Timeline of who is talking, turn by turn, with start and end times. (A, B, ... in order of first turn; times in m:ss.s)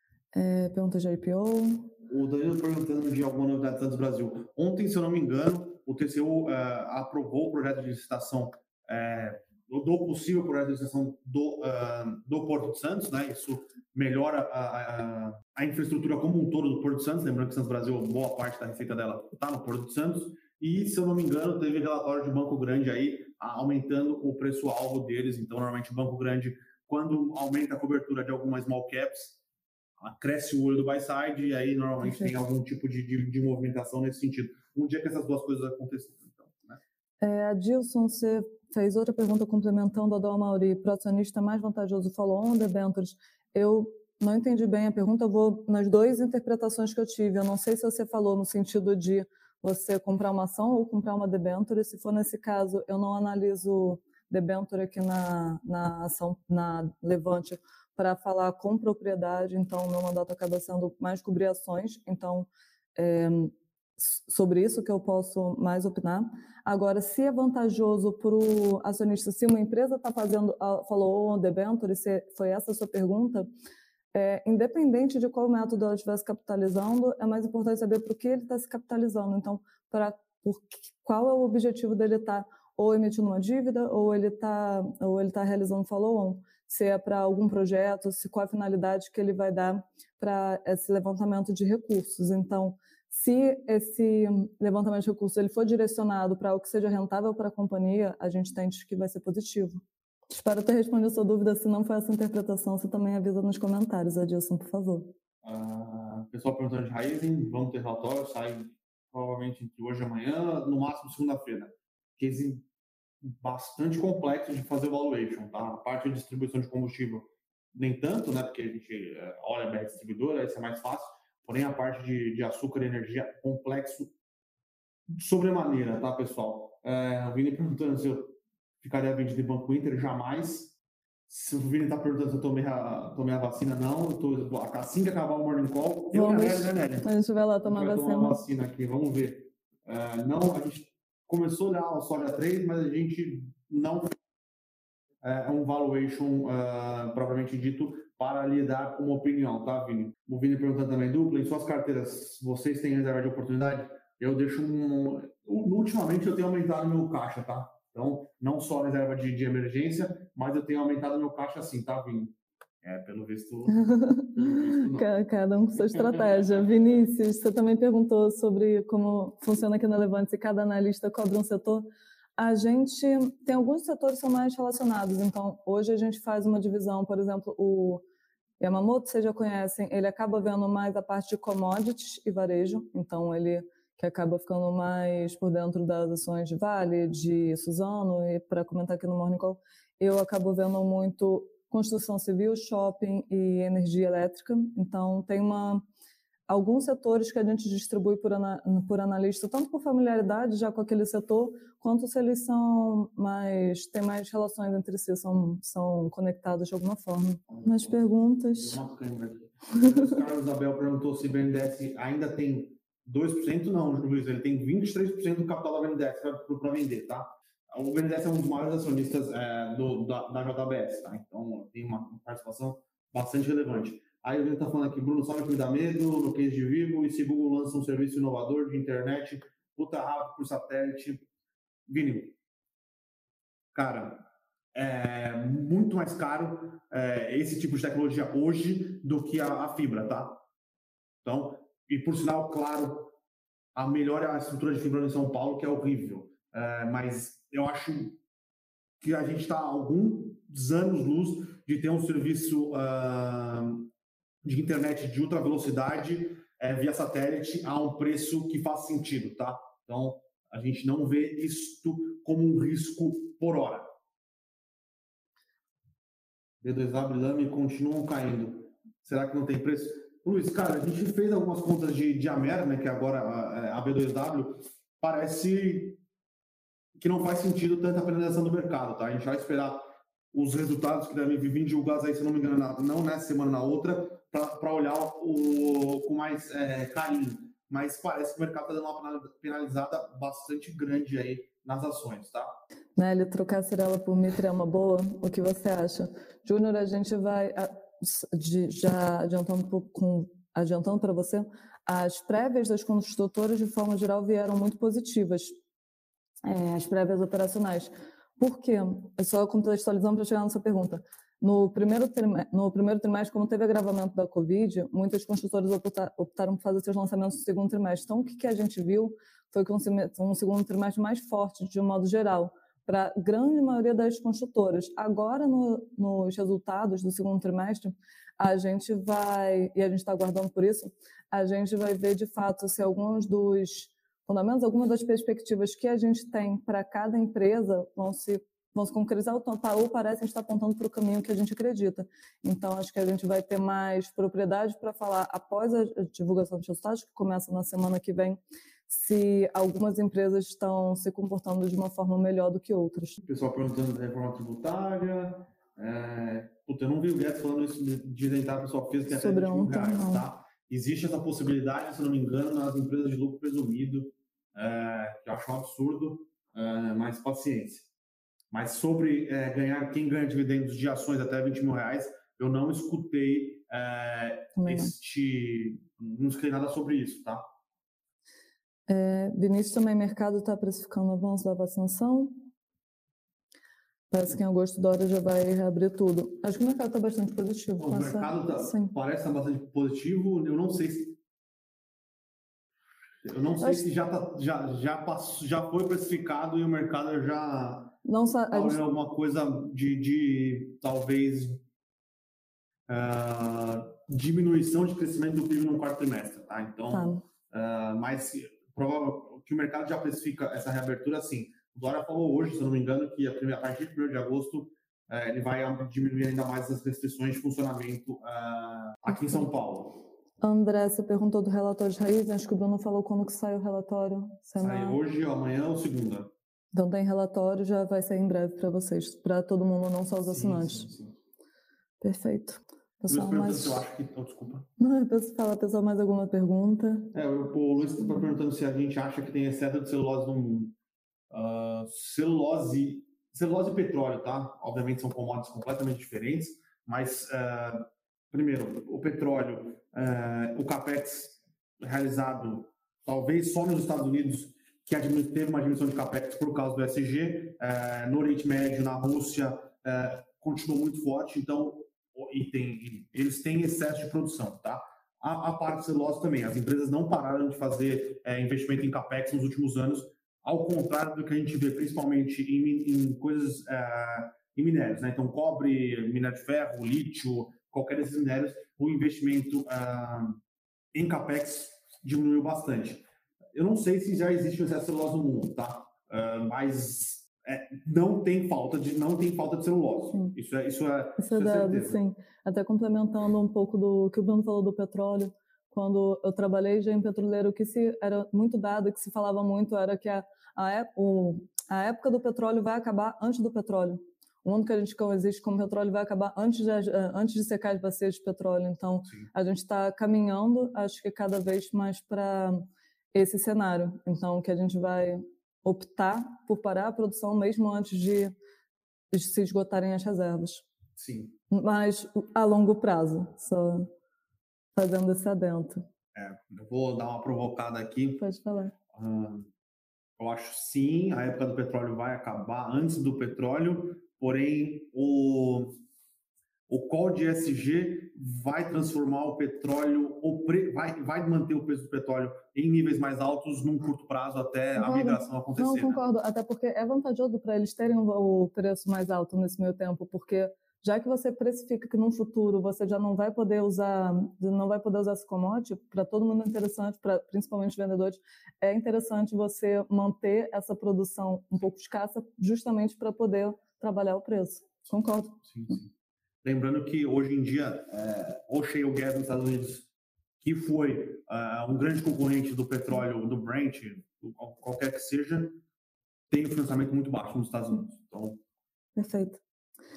0:00.3-0:01.9 A
0:02.1-0:29.4 B
0:30.0-0:36.8 B
0:32.0-0:32.3 A
0:37.2-1:13.5 A
1:14.1-1:45.1 A
1:45.4-1:52.6 B
1:53.2-2:04.1 B
2:05.1-2:10.7 B
2:11.3-2:17.1 B
2:16.1-2:18.4 A
2:17.6-2:24.1 B
2:25.2-2:46.7 B
2:43.7-2:58.0 A
2:58.6-3:15.8 A
3:16.5-3:28.8 A
3:27.5-3:51.2 B
3:29.8-3:30.1 A
3:51.9-3:52.3 B
3:53.7-4:00.4 B
4:01.2-4:03.1 B
4:03.8-4:08.2 B
4:09.0-4:13.9 B
4:14.4-4:23.9 B
4:26.6-4:36.0 B
4:37.0-4:52.6 B
4:53.0-5:05.5 A
5:06.4-5:53.2 A
5:53.2-6:07.9 B
5:59.1-6:00.2 A
6:08.5-6:17.4 B
6:14.5-6:14.9 A
6:18.9-6:22.5 A
6:24.1-6:28.9 A
6:27.8-6:31.2 B
6:33.2-6:38.0 B
6:33.6-6:33.9 A
6:38.0-6:38.8 A
6:38.5-6:41.6 B
6:42.9-6:59.9 B
6:46.9-6:47.2 A
7:00.4-7:05.0 A
7:04.6-7:06.3 B
7:06.7-7:10.9 A
7:10.2-7:11.1 B
7:12.0-7:13.8 A
7:13.1-7:14.7 B
7:14.8-7:17.1 A
7:17.1-7:20.7 B
7:21.3-8:00.4 B
8:00.9-8:03.0 B
8:03.5-8:12.0 B
8:11.2-8:38.3 A
8:29.0-8:29.3 B
8:39.1-8:40.6 A
8:41.0-8:41.4 B
8:41.5-8:43.9 A
8:44.8-8:45.8 A
8:46.1-8:48.2 B
8:48.2-8:48.7 A
8:48.9-8:49.5 B
8:50.2-8:55.8 B
8:56.7-9:06.0 B
9:04.8-9:25.4 A
9:25.4-9:25.9 B
9:26.4-9:29.9 B
9:30.4-9:35.6 B
9:36.3-9:38.4 B
9:39.0-9:39.4 A